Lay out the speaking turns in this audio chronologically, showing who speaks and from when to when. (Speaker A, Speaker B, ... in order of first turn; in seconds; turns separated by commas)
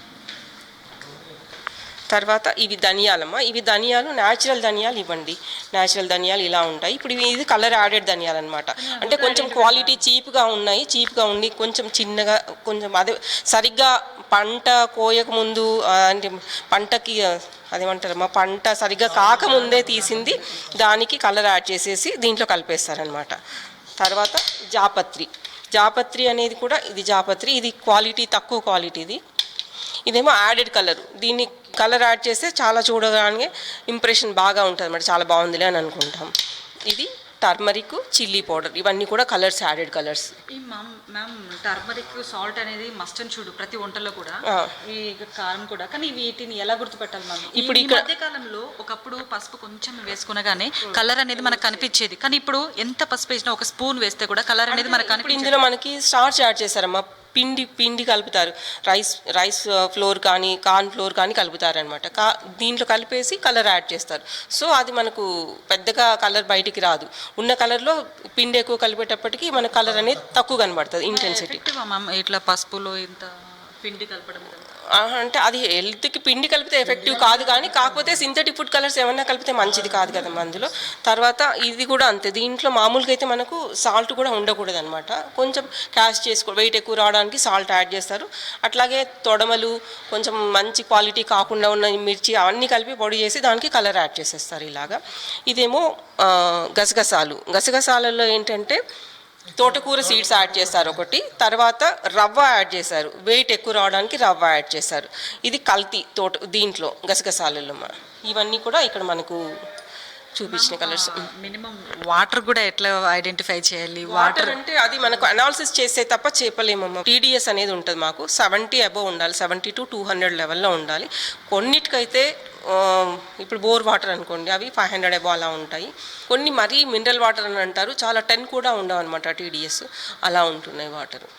Speaker A: 2.1-23.4, Speaker B: 8.8-10.0, Speaker A: 24.0-29.2, Speaker A: 30.1-36.3, Speaker A: 36.9-40.3, Speaker B: 40.5-55.7, Speaker A: 44.5-44.7, Speaker A: 47.5-48.1, Speaker A: 50.9-51.9, Speaker A: 54.7-71.6, Speaker B: 71.1-74.6, Speaker A: 75.0-98.8, Speaker A: 99.5-109.4, Speaker A: 110.3-111.2, Speaker B: 110.5-114.6, Speaker A: 114.1-131.3